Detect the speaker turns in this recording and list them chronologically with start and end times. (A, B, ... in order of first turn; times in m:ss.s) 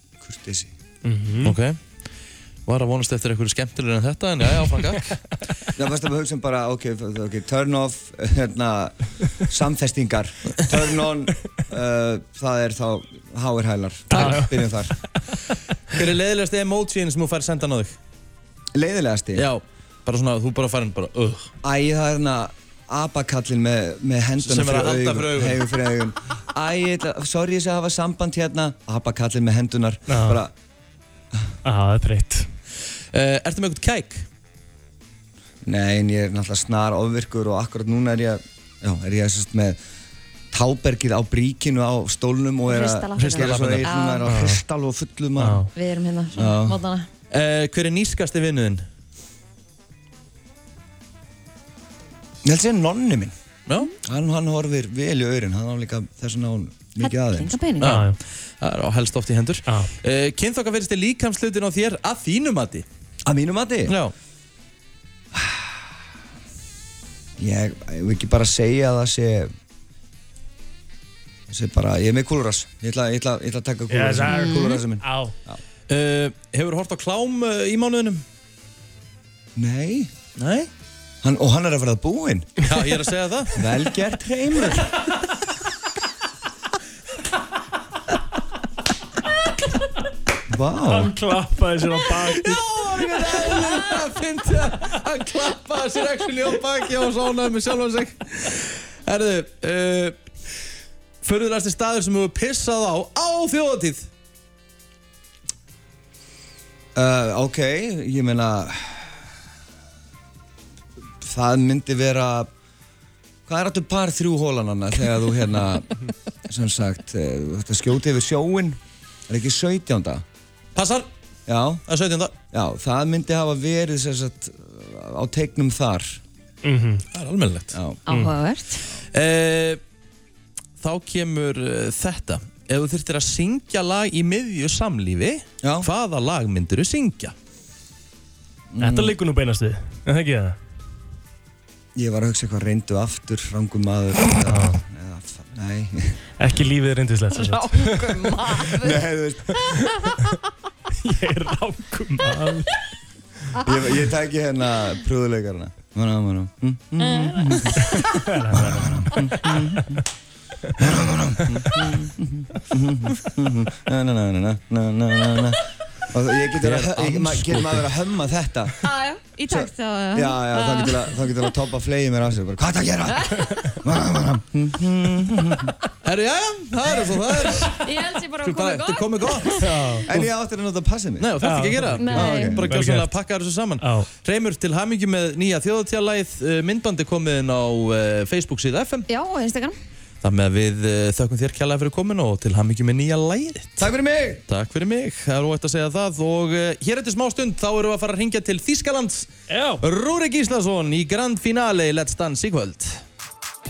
0:00.2-0:00.7 A
0:01.0-0:01.6 B
0:01.4-0:01.8 C
0:02.7-0:05.2 C
0:05.8-0:14.9 A
0:14.1-0:14.7 B
0:14.1-0:14.5 C
0:15.9-0:18.0 C
0:18.8-0:19.5 A
0:19.4-0:21.5 C
0:21.6-0:30.5 A
0:24.4-0:25.7 C
0:30.1-0:30.4 B
0:31.6-0:32.5 B
0:33.1-0:34.3 C
0:35.6-0:39.8 A
0:40.5-0:45.7 A
0:42.7-0:44.3 D
0:43.2-0:43.9 C
0:44.3-0:44.6 B
0:45.4-0:45.7 B
0:45.7-0:47.1 D
0:46.4-0:46.8 A
0:47.3-0:48.8 C
0:52.4-0:53.3 A
0:53.7-0:53.9 C
0:54.0-0:57.7 A
0:57.0-0:58.0 D
0:57.8-1:02.9 C
0:57.8-0:58.2 B
1:03.3-1:04.0 A
1:03.9-1:04.1 C
1:05.3-1:05.8 A
1:07.4-1:09.5 A
1:11.5-1:15.6 A
1:13.9-1:15.4 B
1:14.3-1:14.7 D
1:15.9-1:18.2 C
1:19.6-1:20.1 A
1:20.4-1:20.7 C
1:21.2-1:22.6 A
1:22.6-1:23.6 C
1:23.6-1:25.0 A
1:30.5-1:31.2 A
1:30.9-1:32.6 B
1:32.0-1:40.2 C
1:33.2-1:33.7 B
1:41.2-1:44.1 C
1:47.0-1:49.2 A
1:51.2-1:52.5 A
1:53.5-1:58.8 A
1:59.3-2:00.2 A
2:00.8-2:01.1 C
2:01.5-2:01.8 A
2:01.9-2:02.4 C
2:02.5-2:06.2 A
2:06.6-2:07.1 B
2:07.1-2:07.8 C
2:07.7-2:08.0 A
2:08.1-2:08.8 D
2:08.1-2:08.3 B
2:09.1-2:09.8 C
2:10.8-2:17.3 C
2:15.6-2:15.9 A
2:18.7-2:19.2 A
2:18.8-2:20.6 B
2:22.0-2:26.2 A
2:24.5-2:24.8 B
2:26.4-2:28.6 B
2:27.4-2:28.9 D
2:28.7-2:29.6 A
2:29.8-2:30.2 D
2:31.0-2:32.8 B
2:33.6-2:39.8 A
2:37.0-2:38.2 D
2:38.3-2:39.2 B
2:39.2-2:39.8 D
2:40.8-2:42.1 A
2:41.7-2:42.1 D
2:42.7-2:48.8 A
2:46.6-2:47.9 C
2:48.8-2:51.2 D
2:49.5-2:55.7 A
2:53.1-2:53.7 D
2:56.0-2:57.8 C
2:57.7-2:59.7 D
2:58.4-2:59.7 C
2:59.6-3:00.2 B
3:00.1-3:01.4 A
3:01.2-3:09.1 C
3:01.4-3:03.1 B
3:02.0-3:02.6 D
3:02.1-3:02.8 A
3:03.8-3:04.1 B
3:09.1-3:09.8 D
3:10.2-3:13.9 C
3:13.8-3:14.4 A
3:14.5-3:19.3 C
3:19.5-3:19.8 B
3:19.8-3:23.0 C